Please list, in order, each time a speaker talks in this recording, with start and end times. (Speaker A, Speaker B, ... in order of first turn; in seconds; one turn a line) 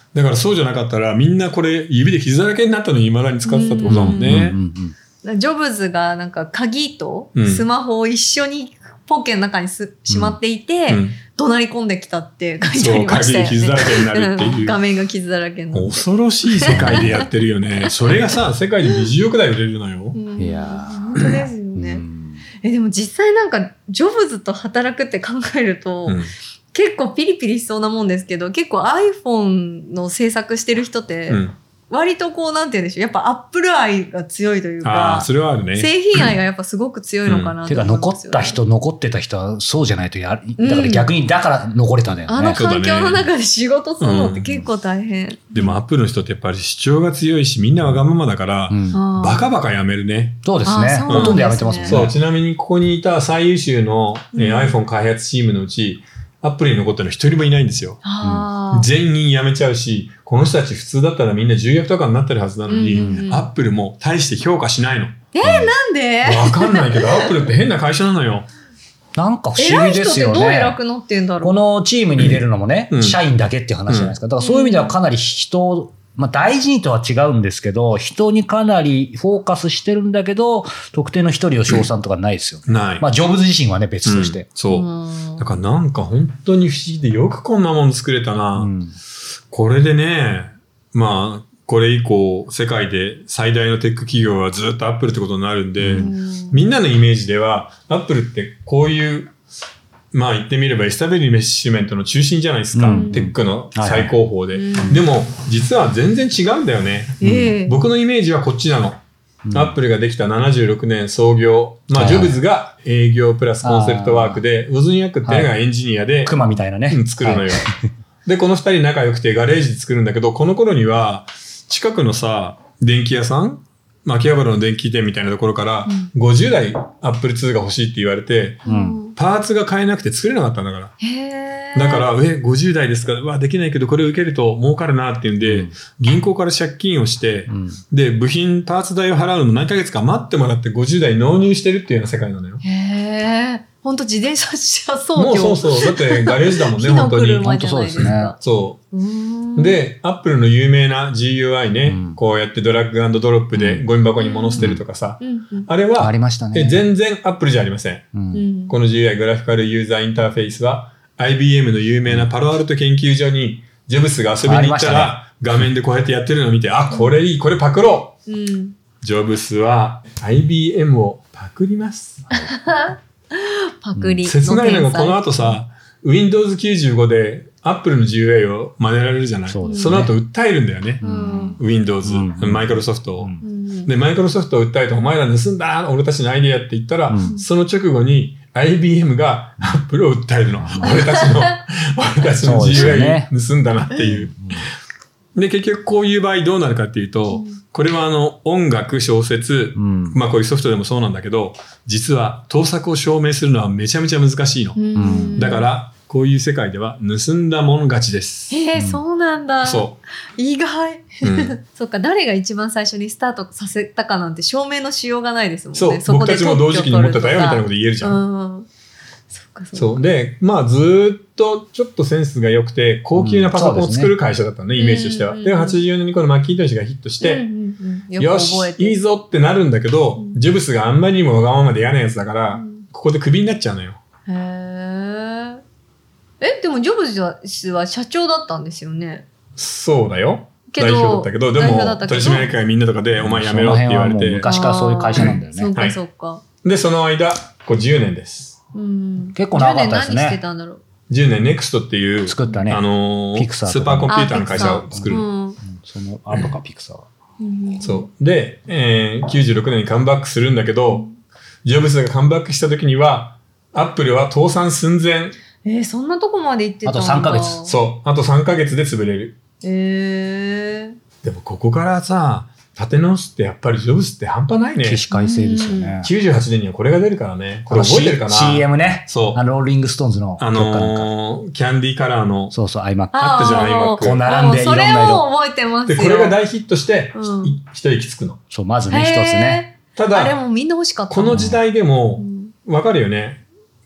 Speaker A: 0.1-4.6
Speaker B: 3.5-4.4
Speaker C: 3.8-4.9
Speaker B: 5.2-17.2
Speaker A: 7.3-7.6
Speaker C: 10.1-10.4
Speaker A: 10.9-11.2
Speaker A: 12.7-14.8
Speaker A: 15.7-20.2
Speaker C: 16.7-17.3
Speaker B: 20.1-22.0
Speaker C: 20.4-22.4
Speaker B: 22.6-26.2
Speaker B: 26.7-38.6
Speaker A: 31.3-31.5
Speaker A: 34.8-36.3
Speaker A: 37.2-37.5
Speaker C: 37.6-42.6
Speaker B: 40.6-41.1
Speaker B: 42.3-45.8
Speaker A: 42.5-43.3
Speaker A: 44.0-44.6
Speaker A: 45.5-50.4
Speaker C: 48.7-49.0
Speaker B: 48.9-49.5
Speaker C: 50.4-52.1
Speaker B: 50.6-52.0
Speaker A: 51.1-58.0
Speaker B: 54.3-54.8
Speaker B: 58.0-58.9
Speaker A: 58.7-65.2
Speaker B: 62.7-63.4
Speaker C: 62.9-63.3
Speaker B: 65.3-67.3
Speaker C: 65.4-65.7
Speaker A: 66.2-68.5
Speaker C: 69.2-70.8
Speaker B: 69.6-71.6
Speaker C: 71.4-84.5
Speaker A: 72.9-73.2
Speaker A: 73.9-74.2
Speaker B: 74.4-74.9
Speaker A: 82.7-83.0
Speaker A: 84.0-88.7
Speaker B: 84.7-85.5
Speaker C: 88.5-88.9
Speaker A: 89.5-99.3
Speaker C: 95.8-96.1
Speaker B: 95.9-96.6
Speaker A: 100.1-109.0
Speaker C: 102.7-104.1
Speaker B: 102.9-103.2
Speaker B: 104.5-105.0
Speaker B: 107.2-107.8
Speaker C: 107.2-107.5
Speaker C: 109.5-109.8
Speaker A: 109.5-116.3
Speaker C: 111.9-112.4
Speaker C: 113.6-114.4
Speaker C: 115.2-115.5
Speaker C: 116.2-117.8
Speaker A: 116.9-117.7
Speaker A: 118.2-130.9
Speaker C: 128.6-129.0
Speaker B: 128.6-129.1
Speaker B: 131.0-132.1
Speaker A: 131.7-142.6
Speaker C: 135.4-135.7
Speaker C: 137.5-137.8
Speaker B: 142.6-148.3
Speaker A: 145.2-148.8
Speaker C: 147.4-148.3
Speaker B: 148.9-149.8
Speaker A: 149.6-158.1
Speaker C: 151.8-152.2
Speaker C: 153.5-153.8
Speaker B: 154.2-155.7
Speaker C: 156.0-156.8
Speaker C: 158.1-158.4
Speaker B: 158.3-158.7
Speaker A: 158.7-168.2
Speaker C: 164.4-165.2
Speaker B: 168.3-168.7
Speaker A: 169.0-172.3
Speaker B: 172.5-175.6
Speaker C: 173.9-174.2
Speaker A: 174.2-181.0
Speaker C: 179.5-180.1
Speaker B: 179.6-180.0
Speaker C: 181.0-183.4
Speaker B: 181.0-181.6
Speaker A: 181.6-183.3
Speaker B: 183.4-183.9
Speaker A: 183.8-194.6
Speaker C: 190.6-191.1
Speaker B: 190.8-191.3
Speaker C: 192.4-193.3
Speaker C: 194.4-194.6
Speaker A: 195.3-208.6
Speaker C: 199.7-200.2
Speaker B: 204.8-205.7
Speaker C: 204.9-205.5
Speaker B: 208.5-218.7
Speaker C: 208.8-209.0
Speaker A: 209.6-210.0
Speaker A: 211.2-211.6
Speaker A: 215.7-218.2
Speaker B: 219.3-220.0
Speaker A: 219.7-227.4
Speaker C: 223.2-224.1
Speaker B: 224.8-225.8
Speaker B: 227.2-229.0
Speaker A: 228.2-234.0
Speaker B: 232.5-232.8
Speaker B: 234.3-235.6
Speaker B: 236.4-239.2
Speaker A: 239.6-244.5
Speaker B: 240.7-242.5
Speaker C: 243.2-245.7
Speaker B: 244.4-246.4
Speaker A: 245.2-246.0
Speaker A: 246.6-248.6
Speaker B: 248.7-250.8
Speaker C: 249.3-250.4
Speaker A: 251.1-255.3
Speaker C: 252.2-257.1
Speaker B: 254.1-255.6
Speaker B: 257.4-258.1
Speaker A: 257.8-261.1
Speaker A: 261.6-265.4
Speaker B: 265.6-267.7
Speaker C: 266.8-267.6
Speaker A: 267.7-269.4
Speaker B: 269.6-270.9
Speaker A: 271.2-275.0
Speaker C: 274.8-276.1
Speaker B: 275.1-276.0
Speaker A: 276.0-279.4
Speaker C: 277.7-281.1
Speaker A: 280.4-282.5
Speaker C: 282.5-285.2
Speaker B: 283.1-286.4
Speaker A: 283.2-284.2
Speaker A: 285.9-288.4
Speaker B: 287.1-287.6
Speaker C: 288.5-289.6
Speaker B: 288.9-291.6
Speaker A: 289.9-290.4
Speaker A: 291.1-293.4
Speaker C: 291.3-291.6
Speaker B: 292.2-292.5